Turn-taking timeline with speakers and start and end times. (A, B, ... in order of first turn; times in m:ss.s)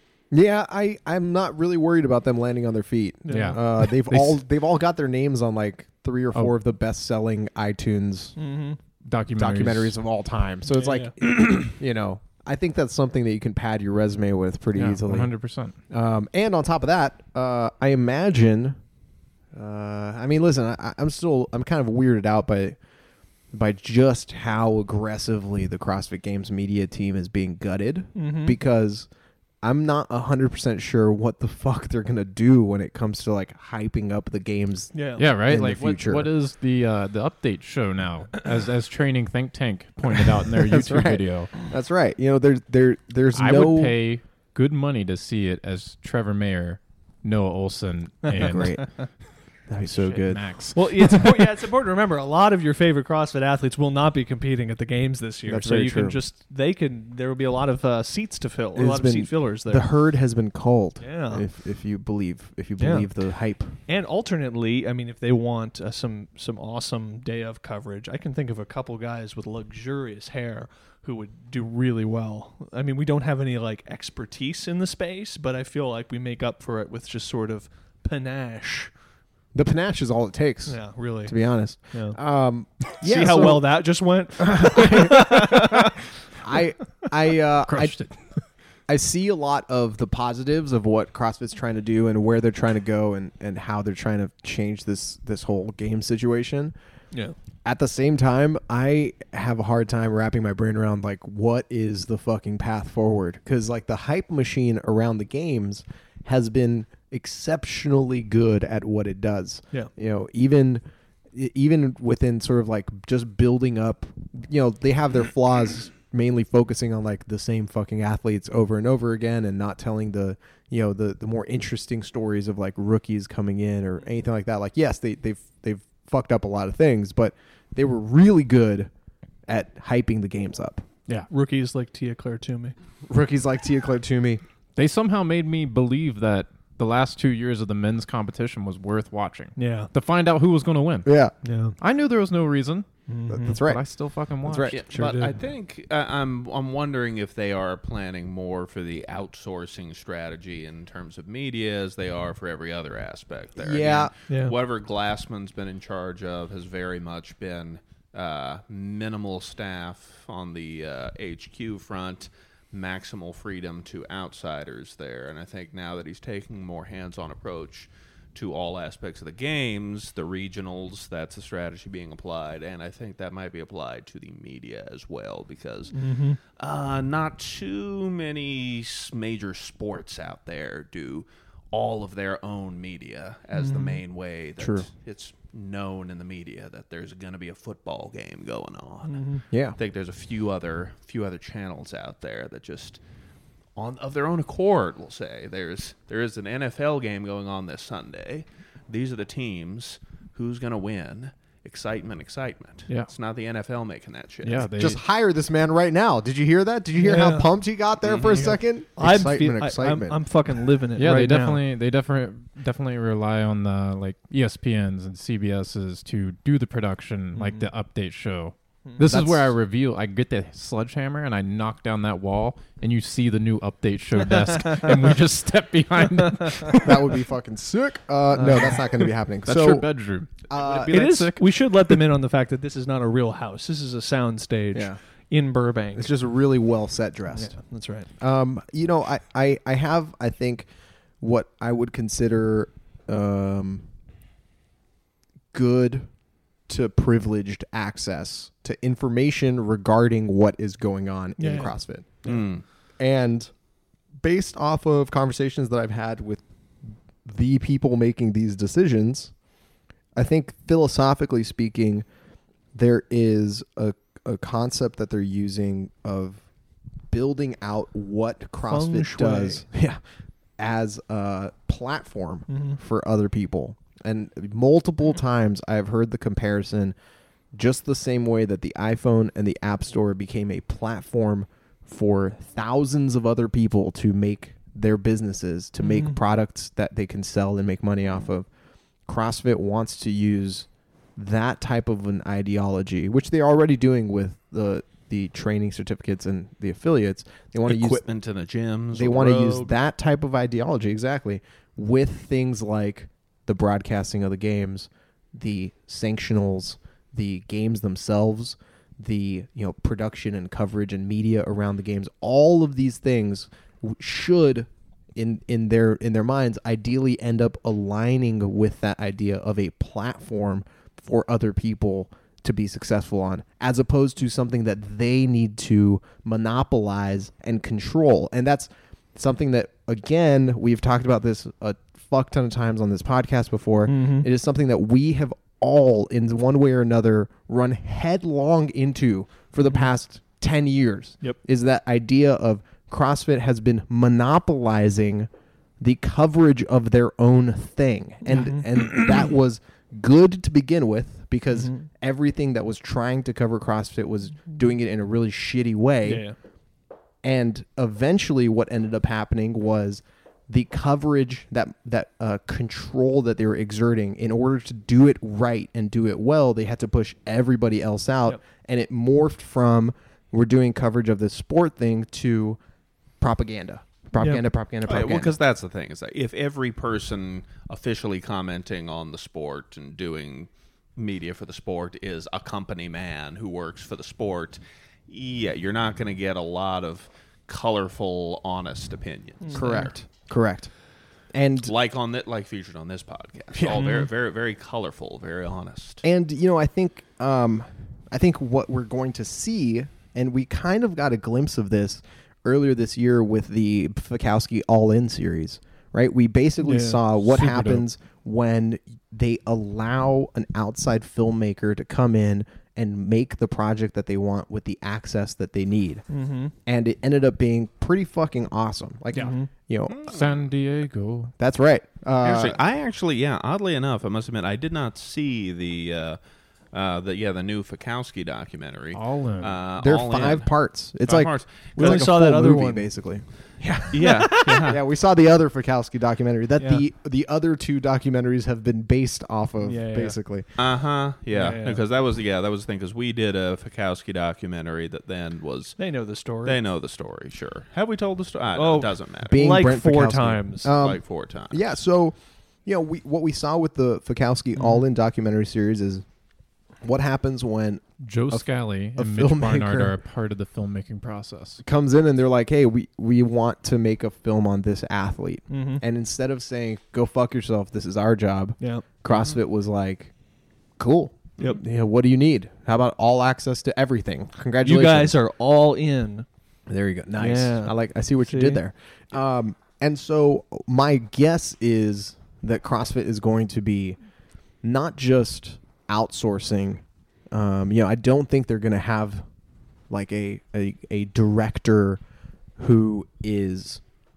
0:00.3-0:08.4 A
0:03.2-0:03.6 B
0:03.3-0:04.4 C
0:08.4-0:08.8 B
0:09.0-0:10.0 C
0:09.4-0:15.3 A
0:10.7-0:11.1 B
0:14.8-0:15.8 C
0:15.9-0:18.8 A
0:19.5-0:22.8 A
0:23.5-0:29.1 A
0:28.2-0:28.6 B
0:29.6-0:36.3 A
0:34.9-0:35.2 B
0:35.2-0:41.5 C
0:40.5-0:44.0 A
0:43.3-0:48.8 C
0:48.3-0:49.0 B
0:48.3-0:48.8 A
0:49.7-0:50.4 A
0:49.8-0:51.3 C
0:50.7-0:59.9 B
0:55.5-0:56.2 A
0:58.8-1:03.8 A
1:01.0-1:01.4 B
1:02.8-1:03.1 B
1:03.9-1:18.9 B
1:19.5-1:23.7 A
1:20.7-1:21.4 B
1:21.9-1:22.2 B
1:23.0-1:26.0 B
1:24.4-1:28.0 A
1:27.6-1:28.4 C
1:28.9-1:36.8 A
1:37.6-2:08.9 A
2:09.5-2:10.9 A
2:11.3-2:12.8 B
2:13.1-2:14.4 A
2:14.8-2:21.1 C
2:19.6-2:19.9 B
2:21.1-2:21.3 A
2:21.4-2:21.8 B
2:21.8-2:22.9 C
2:23.1-2:23.6 B
2:23.3-2:23.8 A
2:23.5-2:24.8 C
2:24.4-2:24.8 A
2:24.7-2:56.0 D
2:24.9-2:25.4 B
2:33.6-2:34.1 A
2:34.3-2:34.6 B
2:55.9-2:56.4 B
2:56.5-3:09.2 D
3:03.6-3:04.0 B
3:04.6-3:04.9 A
3:09.1-3:09.4 B
3:09.5-3:09.8 A
3:09.8-3:13.0 D
3:13.8-3:24.7 D
3:24.4-3:25.0 C
3:24.8-3:30.2 A
3:27.0-3:27.5 B
3:28.0-3:28.6 D
3:28.4-3:31.6 B
3:31.0-3:47.2 C
3:37.3-3:37.7 B
3:39.0-3:39.5 A
3:44.6-3:44.9 B
3:46.4-3:46.7 B
3:46.7-3:49.9 A
3:48.4-3:48.8 B
3:49.4-3:52.0 C
3:50.5-3:51.1 A
3:50.8-3:56.1 B
3:56.0-3:57.6 A
3:57.3-3:58.1 B
3:58.2-4:00.7 A
4:01.2-4:03.8 A
4:05.5-4:06.1 A
4:06.7-4:12.4 A
4:11.4-4:11.7 B
4:12.2-4:12.6 D
4:13.0-4:13.5 A
4:14.2-4:16.4 A
4:17.2-4:19.3 A
4:20.2-4:22.0 A
4:22.7-4:26.4 A
4:27.1-4:30.0 A
4:28.6-4:29.6 B
4:30.6-4:37.0 A
4:32.5-4:32.8 B
4:37.5-4:48.5 A
4:45.8-4:46.2 B
4:49.1-4:58.0 A
4:57.7-4:59.7 D
4:58.9-5:45.3 A
5:33.9-5:34.3 B
5:45.8-5:56.2 A
5:48.2-5:49.1 B
5:51.5-5:51.8 B
5:56.0-5:56.4 B
5:57.2-6:12.6 A
6:13.2-6:15.3 A
6:14.2-6:14.4 B
6:14.8-6:29.9 D
6:29.4-6:29.9 B
6:29.5-6:30.7 A
6:31.3-6:31.7 A
6:31.6-6:36.0 D
6:33.6-6:33.9 A
6:33.7-6:34.1 B
6:36.0-6:56.0 A
6:46.6-6:47.0 B
6:47.2-6:47.9 C
6:56.1-6:56.5 B
6:56.7-7:00.1 A
6:59.2-6:59.5 B
6:59.9-7:00.4 D
7:00.1-7:01.3 C
7:01.4-7:02.6 A
7:02.2-7:06.2 D
7:06.7-7:10.5 D
7:08.9-7:09.6 C
7:09.8-7:20.5 A
7:11.0-7:12.0 D
7:11.8-7:12.9 B
7:13.9-7:14.8 D
7:14.0-7:14.8 B
7:16.6-7:16.8 B
7:19.6-7:20.2 B
7:20.6-7:25.8 D
7:21.3-7:21.8 B
7:25.8-7:26.6 B
7:26.4-7:29.6 D
7:28.6-7:30.7 B
7:29.3-7:36.0 A
7:30.7-7:31.7 D
7:34.6-7:34.8 B
7:36.8-7:39.9 A
7:38.0-7:41.6 C
7:41.6-7:50.1 A
7:45.5-7:45.8 B
7:48.6-7:48.8 B
7:50.8-7:55.2 A
7:54.6-7:56.3 B
7:56.7-8:04.0 A
7:57.2-7:58.6 B
8:04.6-8:09.3 A
8:09.9-8:12.0 A
8:12.6-8:13.8 A